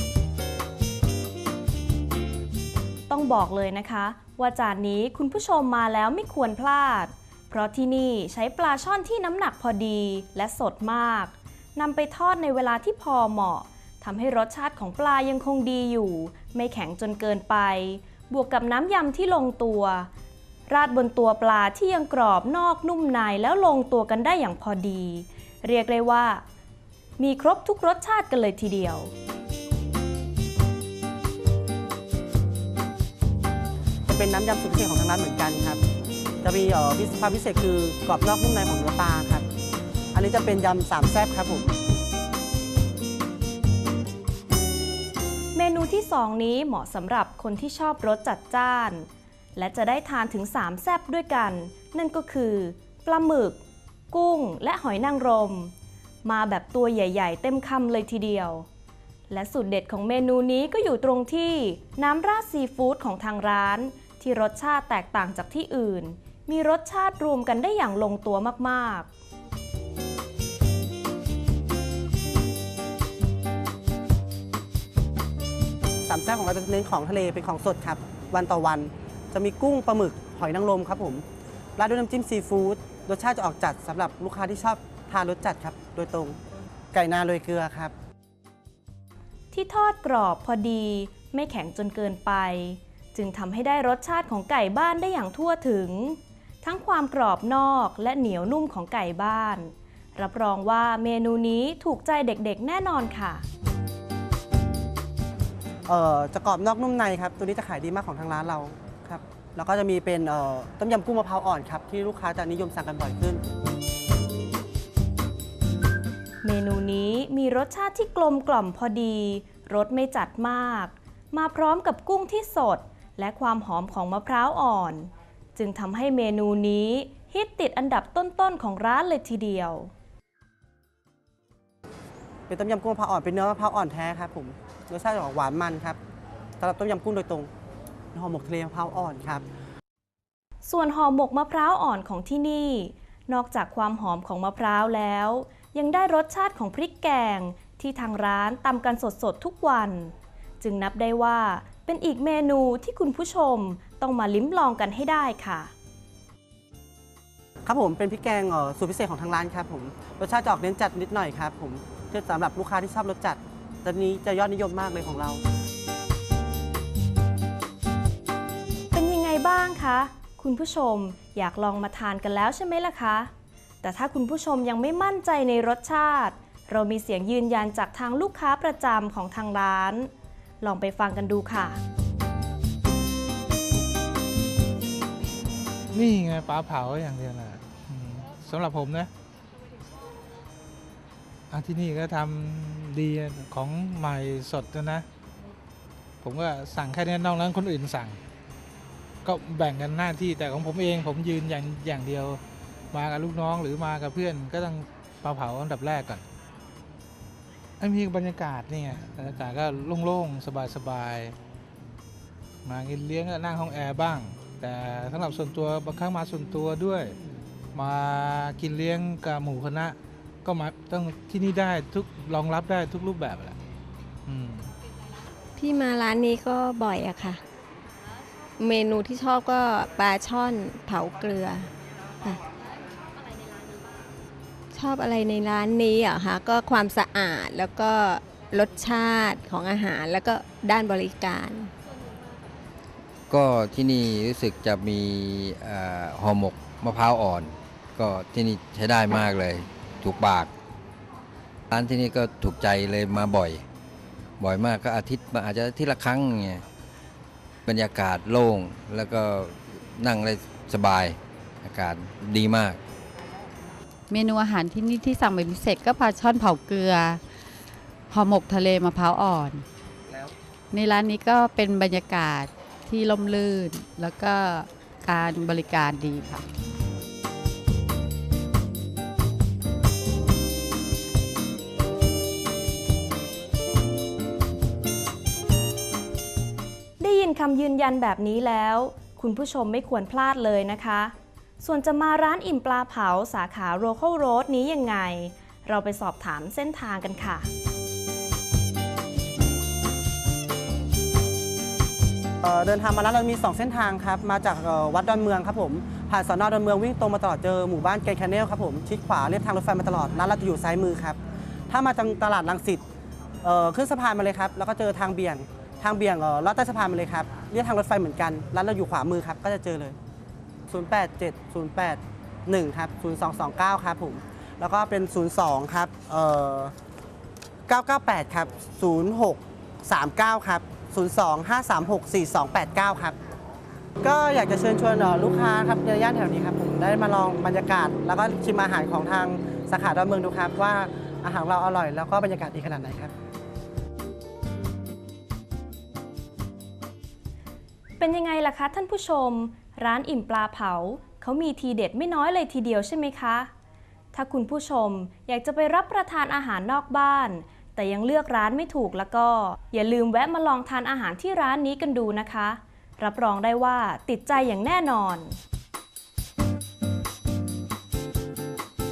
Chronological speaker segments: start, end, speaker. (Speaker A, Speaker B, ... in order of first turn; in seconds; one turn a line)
Speaker A: 3.1-20.1
Speaker A: 20.7-26.4
Speaker A: 27.2-29.1
Speaker B: 34.1-35.8
Speaker B: 36.4-39.5
Speaker B: 40.1-41.7
Speaker A: 45.5-55.7
Speaker A: 56.2-58.7
Speaker A: 59.3-69.1
Speaker B: 76.1-81.2
Speaker B: 81.8-86.4
Speaker B: 86.9-87.9
Speaker A: 89.5-103.5
Speaker B: 105.9-113.4
Speaker A: 116.4-129.9
Speaker B: 132.5-136.0
Speaker B: 136.6-137.5
Speaker B: 138.1-139.4
Speaker A: 140.7-155.7
Speaker B: 157.7-165.4
Speaker A: 168.9-173.3
Speaker A: 173.8-181.8
Speaker C: 185.9-189.1
Speaker C: 191.5-195.1
Speaker C: 196.2-198.2
Speaker C: 199.2-202.4
Speaker C: 202.9-206.2
Speaker C: 207.8-211.3
Speaker C: 212.7-217.2
Speaker C: 217.8-223.6
Speaker C: 224.3-224.7
Speaker D: 225.6-227.4
Speaker D: 228.6-231.7
Speaker D: 234.7-241.7
Speaker E: 243.3-250.5
Speaker E: 251.7-253.6
Speaker E: 254.4-256.6
Speaker E: 257.7-262.8
Speaker F: 264.1-267.2
Speaker F: 268.1-269.6
Speaker F: 270.7-276.4
Speaker A: 287.0-297.5
Speaker B: 302.4-312.8
Speaker B: 313.4-320.0
Speaker B: 320.7-326.7
Speaker B: 327.7-333.2
Speaker B: 334.0-343.1
Speaker A: 348.0-353.5
Speaker A: 354.1-365.4